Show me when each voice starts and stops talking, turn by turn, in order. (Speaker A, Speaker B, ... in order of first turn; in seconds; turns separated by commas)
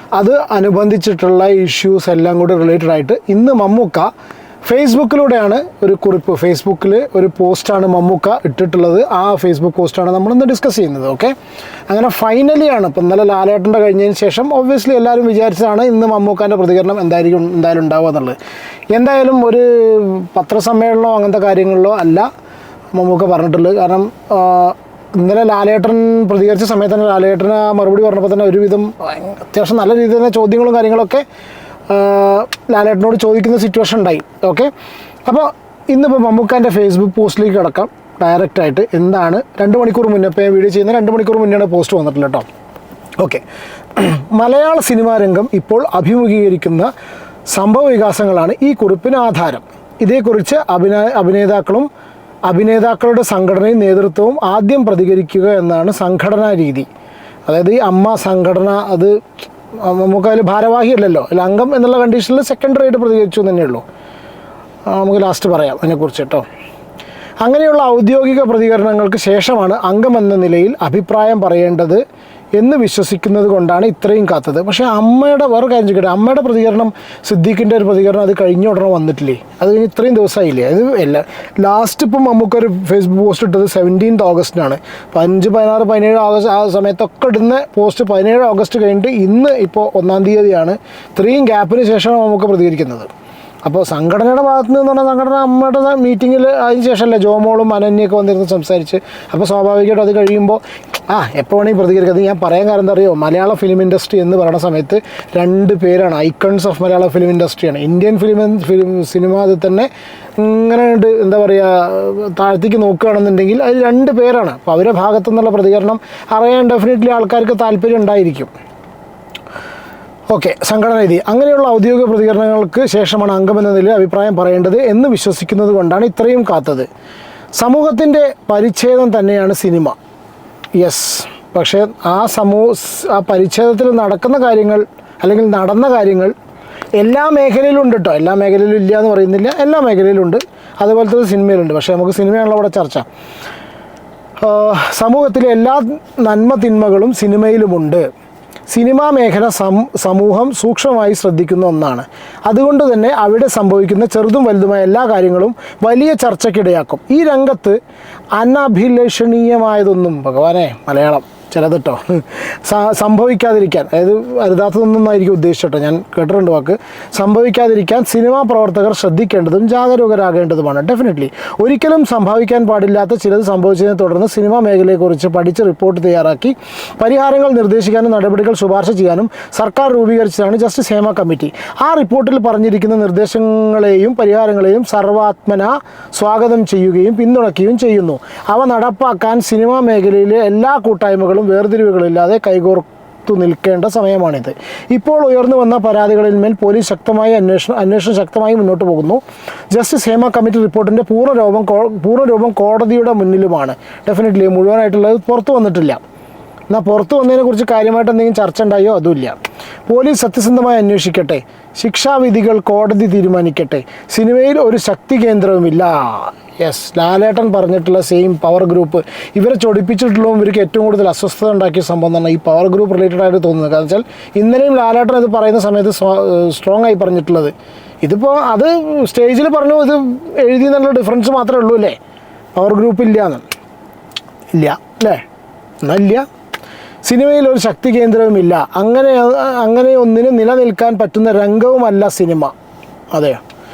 Speaker A: 0.2-4.1, Speaker A: 4.6-11.3, Speaker A: 11.9-18.4, Speaker A: 18.9-22.3, Speaker A: 22.9-31.2, Speaker A: 31.9-34.7, Speaker A: 35.3-42.5, Speaker A: 43.2-43.4, Speaker A: 44.0-46.9, Speaker A: 47.5-51.9, Speaker A: 52.5-56.9, Speaker A: 57.5-59.1, Speaker A: 59.8-63.8, Speaker A: 64.9-66.5, Speaker A: 67.4-72.0, Speaker A: 72.6-93.1, Speaker A: 93.7-118.5, Speaker A: 120.3-126.9, Speaker A: 127.6-130.0, Speaker A: 130.8-136.3, Speaker A: 137.0-143.1, Speaker A: 144.4-148.1, Speaker A: 148.7-157.8, Speaker A: 158.4-206.0, Speaker A: 206.7-232.0, Speaker A: 232.6-233.4, Speaker A: 234.5-235.2, Speaker A: 235.8-236.2, Speaker A: 237.1-242.5, Speaker A: 243.1-243.4